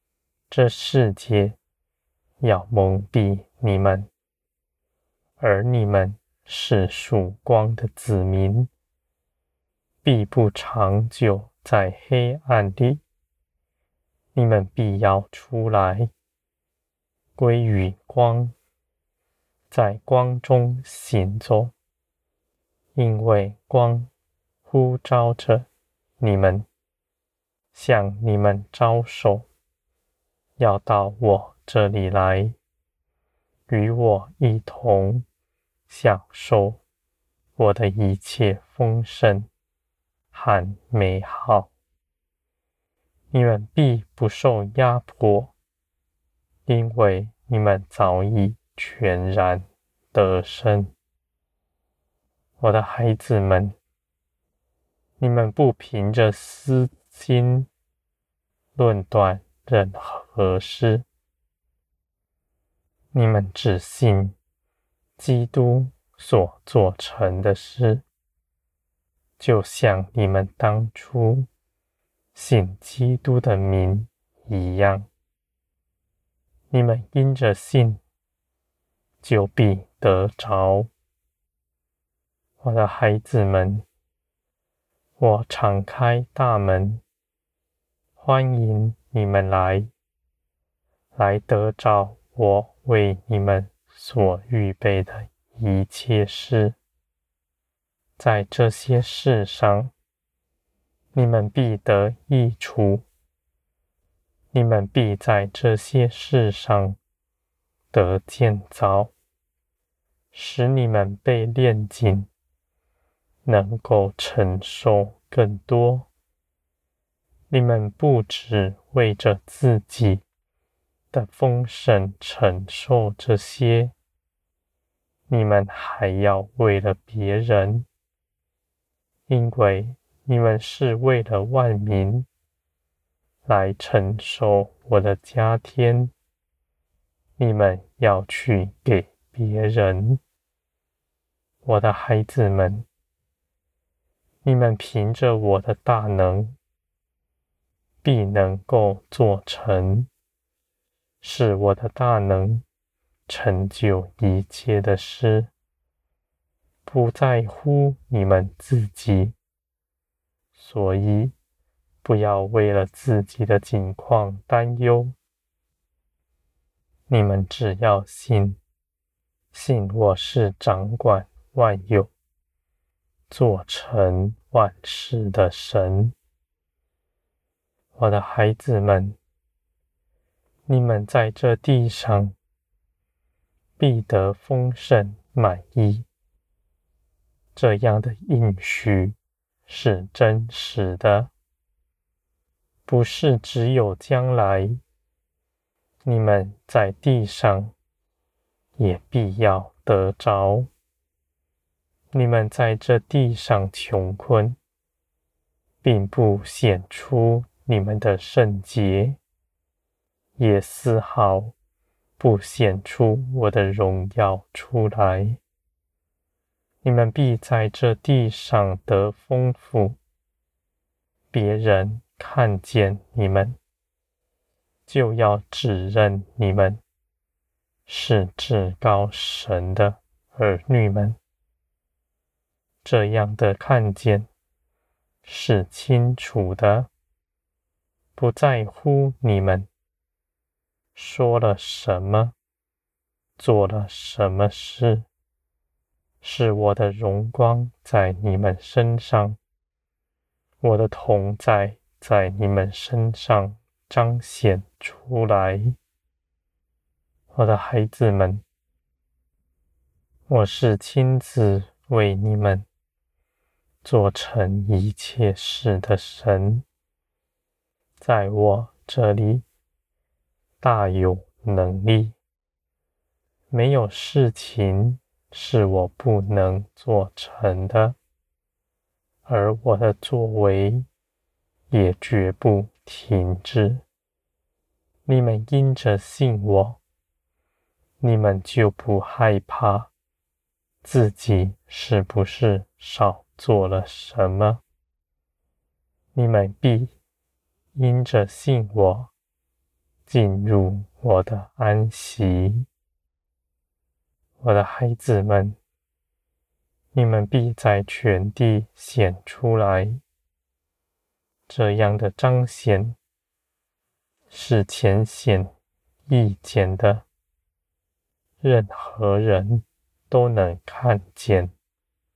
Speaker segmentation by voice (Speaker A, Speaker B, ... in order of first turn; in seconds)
Speaker A: 0.5-1.6, 2.4-4.1, 5.4-8.7, 10.0-13.0, 14.3-16.1, 17.4-18.5, 19.7-21.7, 22.9-24.1, 24.6-25.7, 26.2-26.7, 27.7-29.5, 30.6-32.6, 33.7-35.2, 35.9-36.8, 37.6-39.5, 40.3-41.7, 43.3-45.5, 46.6-50.9, 52.6-53.8, 55.2-57.7, 58.8-61.1, 63.1-64.3, 65.2-68.0, 69.4-71.5, 72.3-75.1, 76.7-78.0, 79.2-80.9, 82.6-83.8, 85.2-87.0, 88.2-89.9, 91.1-96.8, 98.2-99.9, 101.1-103.1, 104.5-107.0, 107.9-109.1, 110.3-112.3, 113.4-116.1, 117.5-120.2, 121.1-123.9, 125.3-127.9, 129.3-132.3, 133.4-136.1, 137.4-140.2, 141.6-142.8, 144.4-146.6, 148.0-150.1, 151.2-152.6, 153.3-155.5, 156.8-159.3, 160.5-161.3, 162.0-165.2, 167.1-168.6, 169.5-172.1, 173.3-176.2, 177.9-179.2, 180.7-182.3, 183.8-186.1, 187.5-189.2, 189.7-191.3, 192.8-194.8, 196.1-197.7, 198.8-200.7, 202.1-204.6, 205.8-209.2, 210.4-211.5, 212.2-215.4, 216.8-220.0, 221.3-223.6, 224.8-226.8, 227.8-231.2, 232.8-234.3, 235.2-236.9, 238.2-239.7, 240.9-242.3, 243.4-245.1, 246.2-249.4, 250.6-255.8, 257.3-258.4, 260.3-262.7, 263.8-266.6, 268.0-269.4, 270.6-272.2, 273.5-278.0, 279.2-280.9, 281.7-283.8, 285.1-286.8, 288.0-289.9, 290.8-294.6, 296.1-296.9, 297.7-299.1, 300.1-302.7, 304.4-305.6, 306.9-310.0, 311.5-312.9, 314.3-315.5, 316.1-317.1, 318.4-321.5